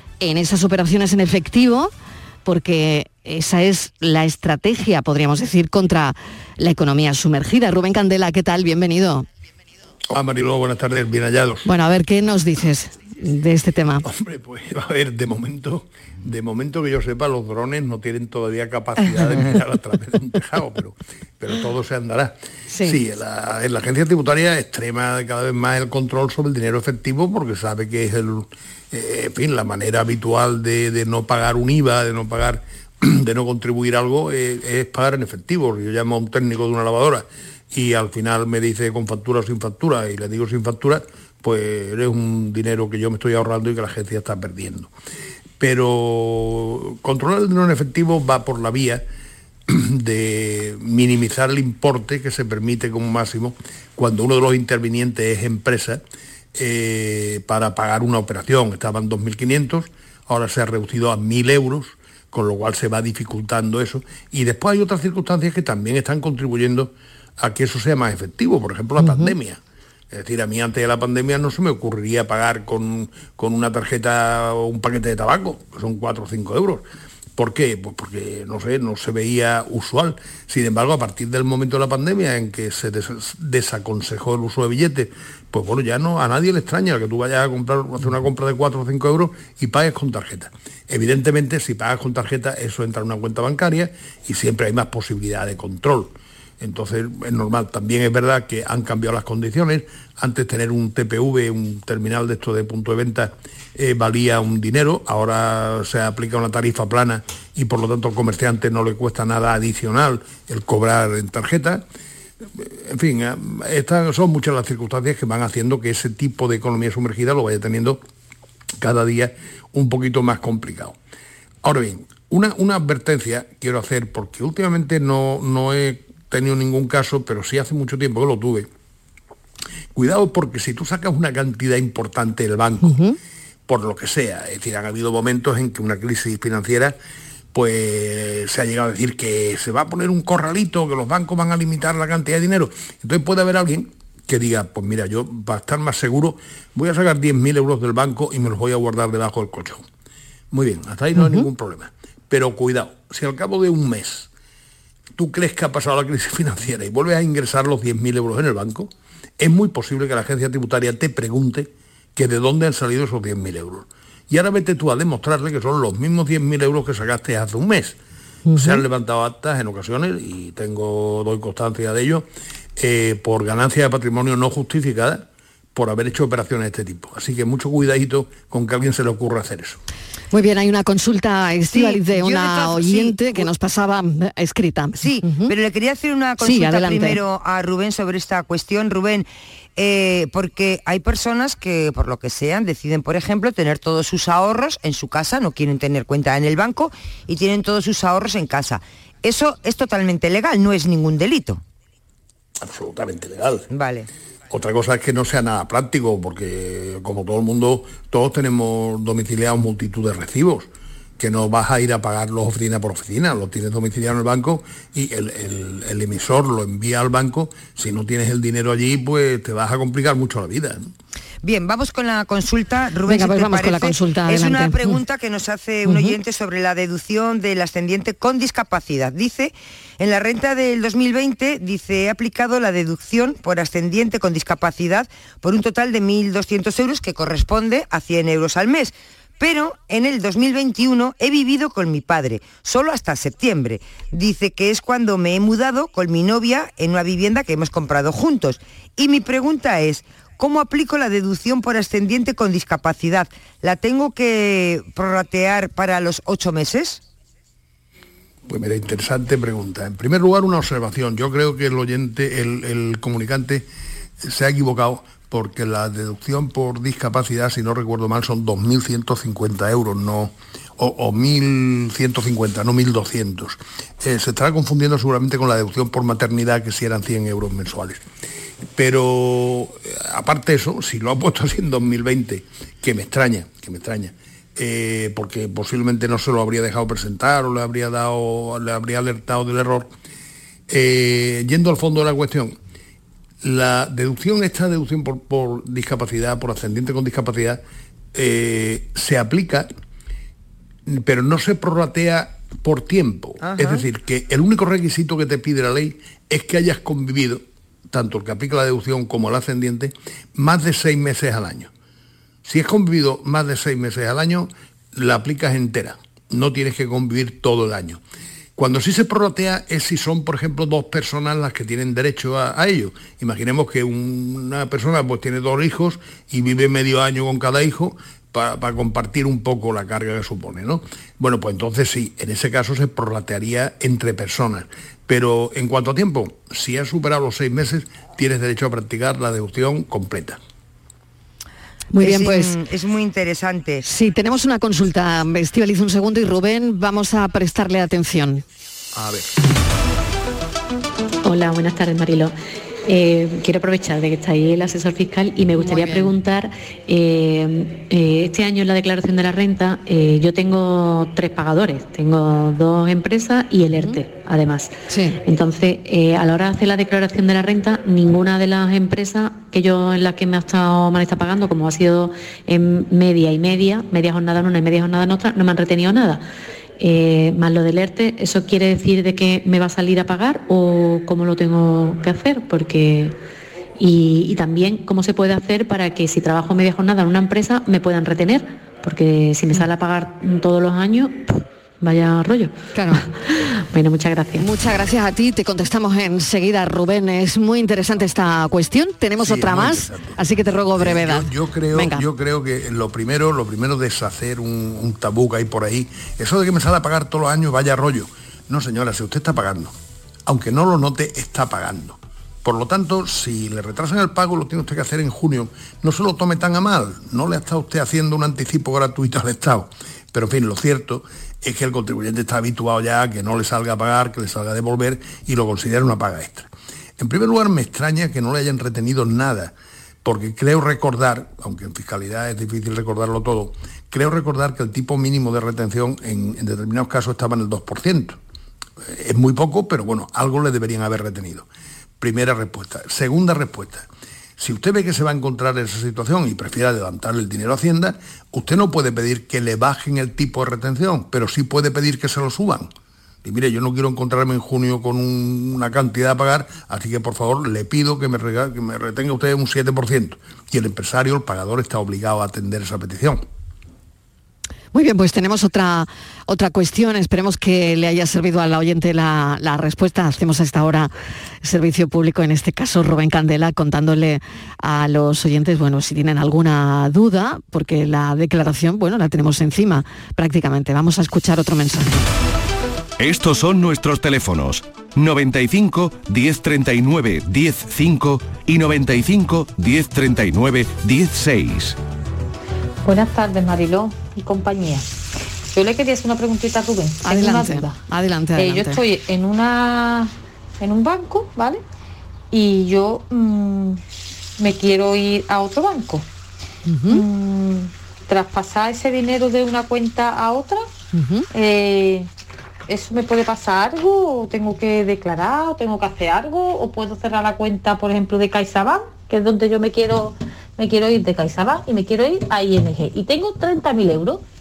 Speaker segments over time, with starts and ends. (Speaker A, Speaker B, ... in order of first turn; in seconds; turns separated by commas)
Speaker A: 0.2-1.9, Speaker A: 2.5-9.3, Speaker B: 10.1-11.7, Speaker A: 11.7-14.1, Speaker B: 14.0-44.9, Speaker A: 22.7-23.0, Speaker B: 45.6-49.0, Speaker B: 49.7-56.0, Speaker B: 56.5-69.6, Speaker A: 69.0-69.3, Speaker B: 70.1-76.9, Speaker B: 77.4-111.8, Speaker B: 112.6-118.0, Speaker B: 118.8-121.0, Speaker B: 121.6-128.7, Speaker B: 129.9-133.0, Speaker A: 132.8-133.2, Speaker B: 133.7-136.9, Speaker B: 137.5-149.8, Speaker B: 150.5-154.3, Speaker A: 151.2-151.5, Speaker B: 155.2-168.0, Speaker B: 168.5-179.8, Speaker A: 180.3-185.5, Speaker C: 181.7-183.5, Speaker C: 185.0-201.6, Speaker A: 186.4-187.2, Speaker B: 202.6-203.7, Speaker C: 203.7-204.1, Speaker B: 204.5-220.9, Speaker C: 221.4-257.0, Speaker A: 223.1-225.0, Speaker A: 225.9-226.2, Speaker B: 258.5-263.7, Speaker B: 264.2-278.0, Speaker B: 278.8-289.9, Speaker B: 290.7-292.6, Speaker B: 293.4-297.6, Speaker B: 298.1-299.7, Speaker B: 300.9-311.7, Speaker C: 303.4-303.8, Speaker B: 312.4-318.0, Speaker B: 318.6-340.4, Speaker A: 341.9-342.6, Speaker C: 342.0-343.8, Speaker A: 343.8-348.4, Speaker B: 348.9-349.3, Speaker D: 351.2-352.4, Speaker D: 352.9-364.7, Speaker A: 355.6-356.1, Speaker A: 364.9-365.2, Speaker D: 365.2-376.2, Speaker D: 376.8-383.2, Speaker D: 383.8-394.5, Speaker A: 392.8-393.1, Speaker A: 394.4-402.0, Speaker B: 399.2-400.2, Speaker B: 400.7-409.7, Speaker B: 410.3-438.2, Speaker B: 438.9-441.5, Speaker B: 442.0-443.9, Speaker B: 444.4-452.7, Speaker B: 453.2-463.2, Speaker A: 464.7-470.9, Speaker A: 471.4-482.1, Speaker E: 483.0-491.8, Speaker F: 492.8-494.9, Speaker F: 495.5-497.8, Speaker A: 497.1-498.8, Speaker F: 498.4-501.6, Speaker F: 502.3-503.8, Speaker F: 504.4-506.1, Speaker A: 506.7-507.0, Speaker F: 506.9-510.7, Speaker A: 510.9-511.3, Speaker F: 511.3-512.1, Speaker F: 512.7-524.2